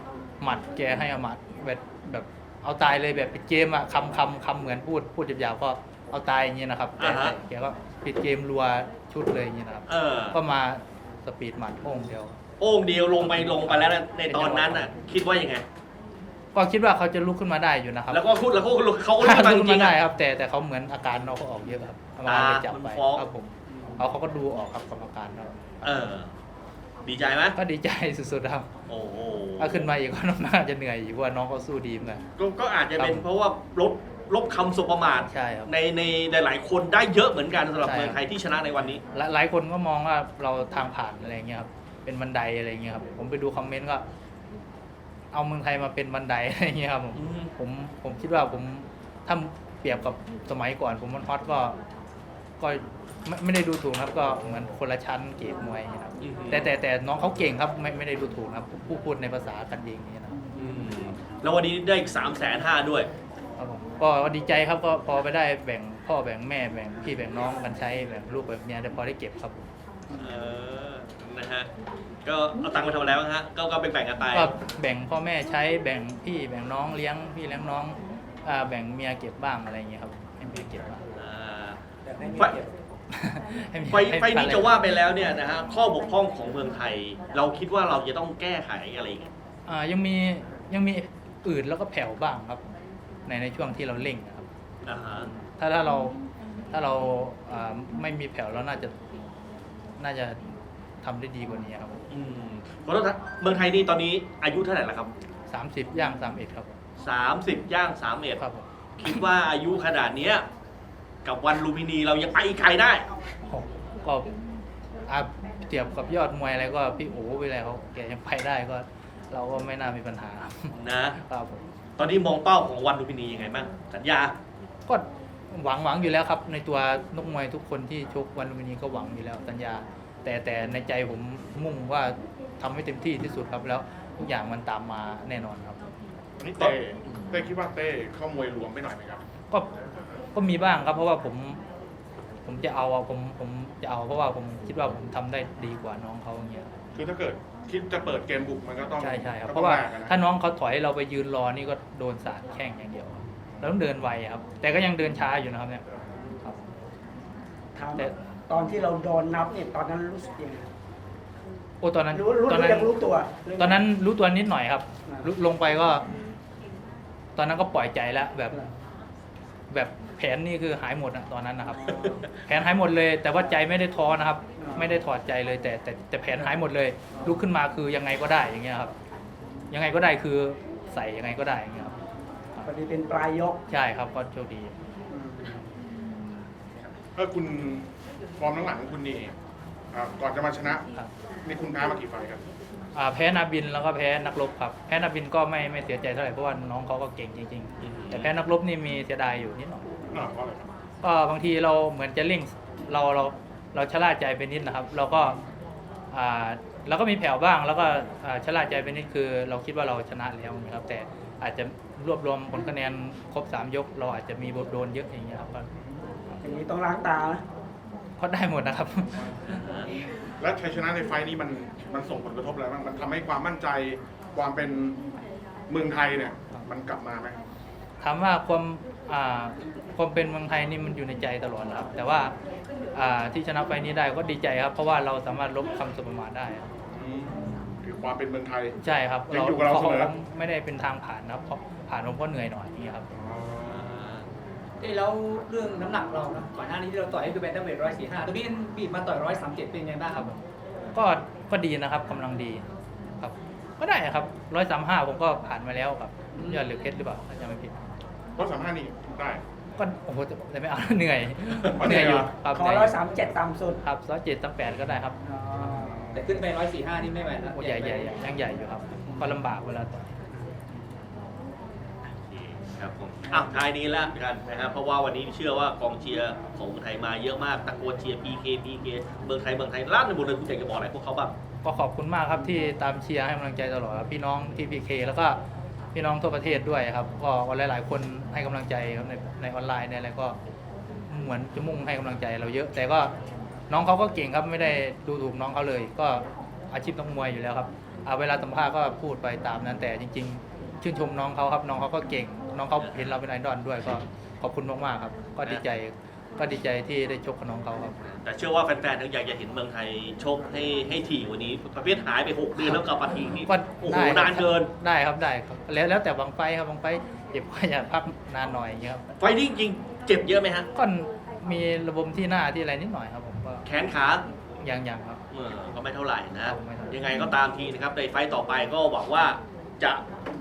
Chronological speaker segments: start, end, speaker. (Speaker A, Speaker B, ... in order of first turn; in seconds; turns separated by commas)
Speaker A: 0.4-12.4, Speaker B: 7.0-7.4, Speaker B: 9.9-10.4, Speaker B: 12.6-15.6, Speaker A: 13.2-14.9, Speaker A: 16.6-18.2, Speaker B: 18.1-20.0, Speaker A: 19.2-26.1, Speaker B: 22.3-23.3, Speaker B: 25.8-26.3, Speaker B: 27.0-27.6, Speaker A: 27.6-28.7, Speaker B: 28.9-29.9, Speaker A: 29.6-32.2, Speaker B: 32.4-39.0, Speaker A: 33.0-33.2, Speaker A: 35.3-35.7, Speaker A: 37.8-38.2, Speaker A: 39.1-44.0, Speaker A: 45.3-51.8, Speaker B: 47.1-47.5, Speaker A: 52.6-60.4, Speaker B: 56.2-56.7, Speaker B: 60.6-63.1, Speaker A: 63.6-69.6, Speaker B: 70.2-71.7, Speaker B: 72.2-74.5, Speaker A: 74.3-81.0, Speaker B: 81.2-81.8, Speaker C: 82.1-82.7, Speaker B: 82.3-82.6, Speaker A: 83.1-84.8, Speaker B: 83.9-89.3, Speaker A: 89.7-92.7, Speaker A: 93.3-94.5, Speaker B: 94.8-95.3, Speaker A: 95.6-96.2, Speaker A: 96.7-98.9, Speaker A: 100.0-100.4, Speaker A: 101.0-102.0, Speaker B: 102.1-105.1, Speaker A: 105.5-106.7, Speaker B: 107.0-108.4, Speaker A: 108.4-109.2, Speaker B: 109.0-110.5, Speaker B: 111.2-113.1, Speaker A: 113.5-114.3, Speaker A: 115.1-121.6, Speaker B: 120.8-121.2, Speaker B: 122.0-124.3, Speaker A: 124.9-135.8, Speaker D: 136.4-139.2, Speaker B: 136.6-137.4, Speaker A: 140.3-141.6, Speaker A: 142.4-146.7, Speaker D: 146.9-150.2, Speaker A: 149.0-155.8, Speaker E: 157.8-160.7, Speaker A: 161.8-162.9, Speaker E: 162.1-163.8, Speaker A: 163.6-166.1, Speaker A: 167.4-168.6, Speaker A: 169.7-178.9, Speaker E: 171.8-172.2, Speaker E: 174.6-175.0, Speaker A: 179.7-182.0, Speaker E: 182.6-183.6, Speaker A: 183.7-184.7, Speaker E: 185.1-185.6, Speaker D: 187.2-189.3, Speaker D: 189.9-190.9, Speaker D: 191.4-192.4, Speaker A: 192.9-199.8, Speaker B: 197.8-198.3, Speaker D: 200.1-200.7, Speaker A: 201.0-205.4, Speaker A: 206.1-215.7, Speaker E: 216.4-217.4, Speaker A: 218.2-219.6, Speaker B: 219.4-219.9, Speaker D: 220.4-225.0, Speaker D: 225.7-227.4, Speaker A: 228.0-232.3, Speaker A: 232.9-236.7, Speaker D: 236.9-238.8, Speaker A: 238.8-243.1, Speaker D: 239.3-240.1, Speaker D: 243.1-244.0, Speaker B: 243.7-244.3, Speaker C: 244.8-250.3, Speaker A: 250.1-250.4, Speaker A: 250.9-252.6, Speaker A: 253.2-257.8, Speaker D: 258.4-259.4, Speaker A: 259.8-263.0, Speaker D: 261.8-262.3, Speaker E: 262.0-263.8, Speaker A: 263.8-265.2, Speaker E: 265.2-265.9, Speaker D: 265.7-266.4, Speaker C: 266.1-268.1, Speaker A: 267.6-270.2, Speaker B: 272.3-281.3, Speaker A: 281.6-285.4, Speaker A: 285.9-290.4, Speaker A: 291.1-293.1, Speaker A: 293.7-308.0, Speaker B: 302.8-303.2, Speaker B: 308.1-314.7, Speaker A: 312.6-312.9, Speaker A: 313.4-319.1, Speaker B: 319.2-320.7, Speaker A: 320.8-323.7, Speaker B: 323.6-324.2, Speaker A: 324.6-325.2, Speaker B: 325.3-330.0, Speaker A: 326.4-327.0